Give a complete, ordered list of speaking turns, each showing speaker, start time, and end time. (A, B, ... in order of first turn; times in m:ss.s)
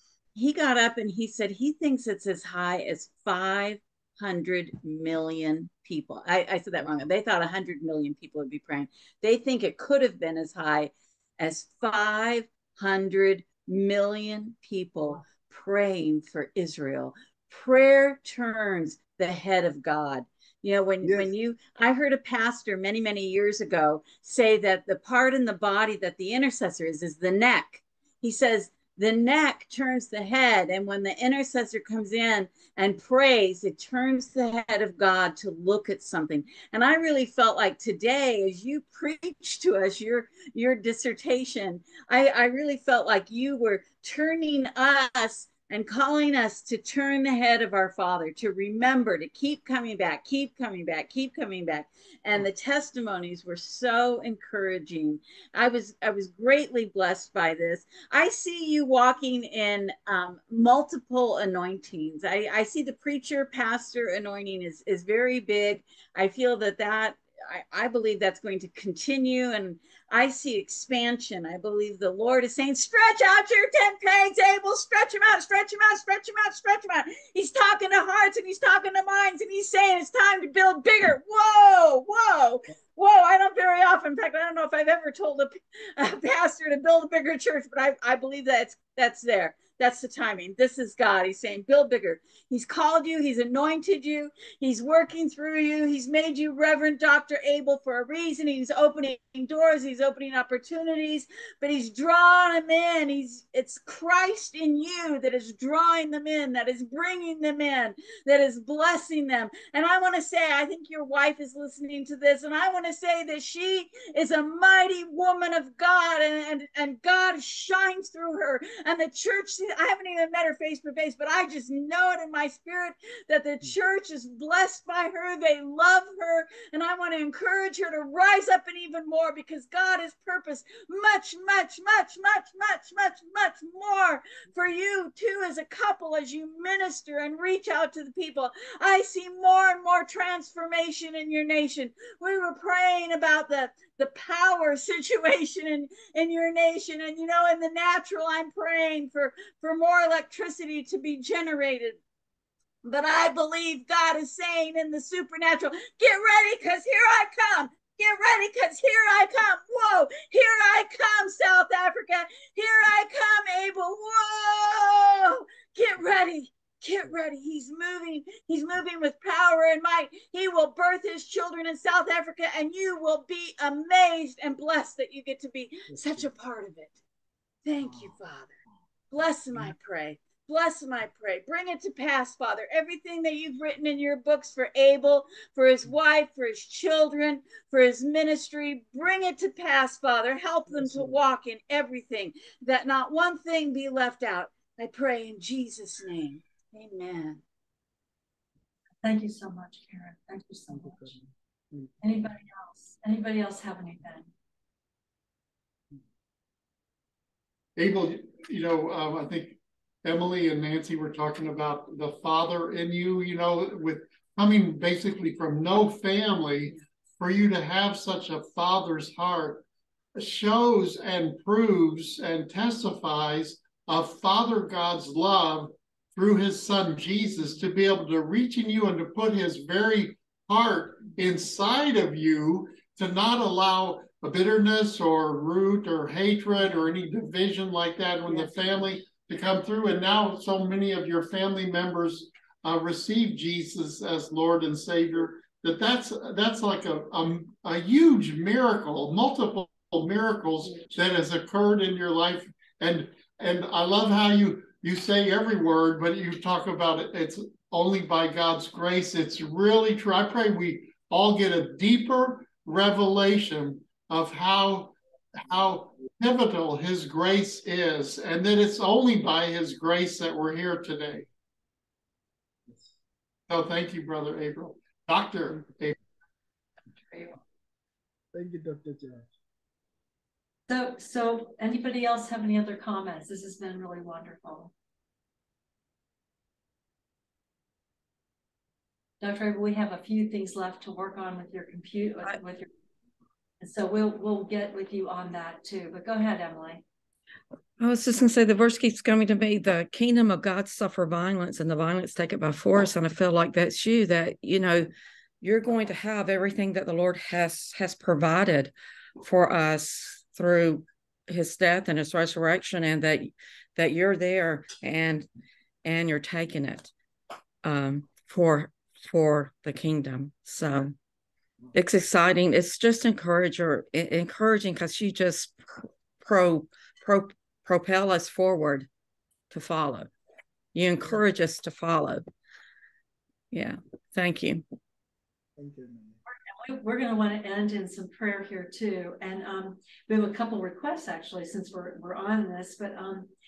0:00.3-2:32.0 A
0:21.0-0:21.3 B
2:32.8-2:57.0 A
2:55.9-2:56.2 B
2:57.6-2:58.5 A
2:59.1-3:17.4 A
3:10.7-3:11.2 B
3:19.0-3:21.2 C
3:20.7-3:21.9 B
3:22.0-3:24.3 C
3:27.8-3:39.6 D
3:40.2-4:31.2 D
4:33.5-4:36.0 D
4:37.1-4:37.4 C
4:38.3-4:39.3 B
4:40.7-4:44.7 C
4:49.2-4:52.7 C
4:53.6-4:56.8 C
4:57.8-5:04.9 E
5:05.4-5:15.3 E
5:15.8-5:16.9 E
5:17.6-5:21.0 E
5:21.7-5:28.9 E
5:29.5-5:30.1 E
5:30.7-5:32.2 E
5:33.5-5:34.6 E
5:35.6-5:36.2 B
5:36.6-5:43.3 C